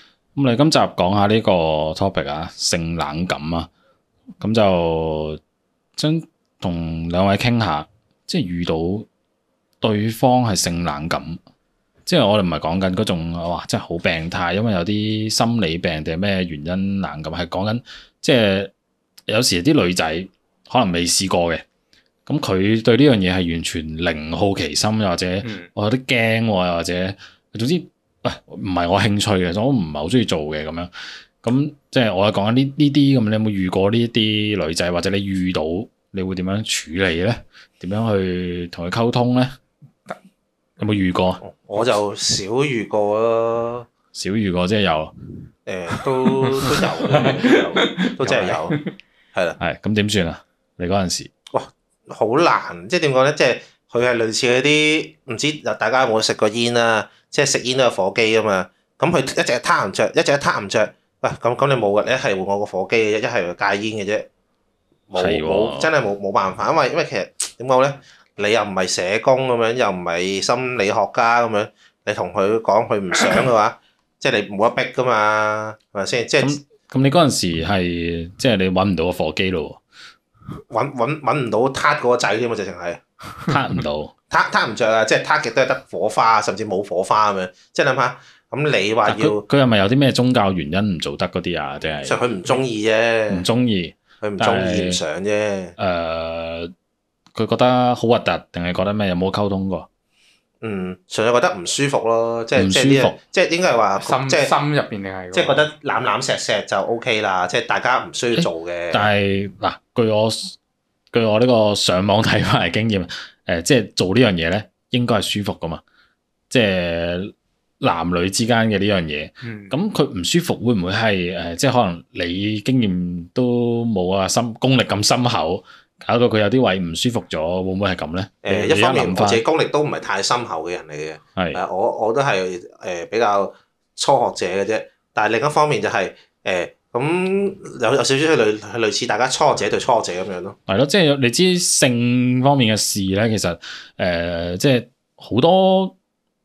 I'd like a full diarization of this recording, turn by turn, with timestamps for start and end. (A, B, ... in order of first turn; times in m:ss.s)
0:00.3-0:03.7 A
0:04.4-0:05.4 A
0:06.0-0:09.0 A
0:09.8-0:11.4 A
0:12.0-0:18.7 A
0:19.3-0:21.6 A
0:22.3-0:30.9 A
0:25.4-0:25.7 B
0:31.4-0:39.5 A
0:40.8-0:41.4 A
0:41.4-0:43.9 C
0:44.1-0:45.1 A
0:45.6-0:48.8 C
0:46.2-0:48.9 B
0:49.3-0:49.6 C
0:49.6-0:51.3 A
0:51.5-1:04.2 C
1:05.1-1:16.6 C
1:05.2-1:05.9 A
1:16.4-1:19.8 A
1:20.7-1:23.0 C
1:23.5-1:24.1 A
1:24.3-1:29.4 C
1:29.0-1:32.2 A
1:32.0-1:33.4 C
1:33.3-1:35.0 A
1:34.2-1:35.7 C
1:35.8-1:36.7 A
1:37.3-1:39.9 A
1:40.6-1:44.5 C
1:42.5-1:43.2 A
1:44.0-1:45.6 B
1:45.3-1:49.1 C
1:48.3-1:50.6 A
1:51.1-1:55.8 A
1:56.5-2:09.4 A
1:59.4-1:59.7 B
2:08.4-2:20.6 C
2:20.7-2:25.9 A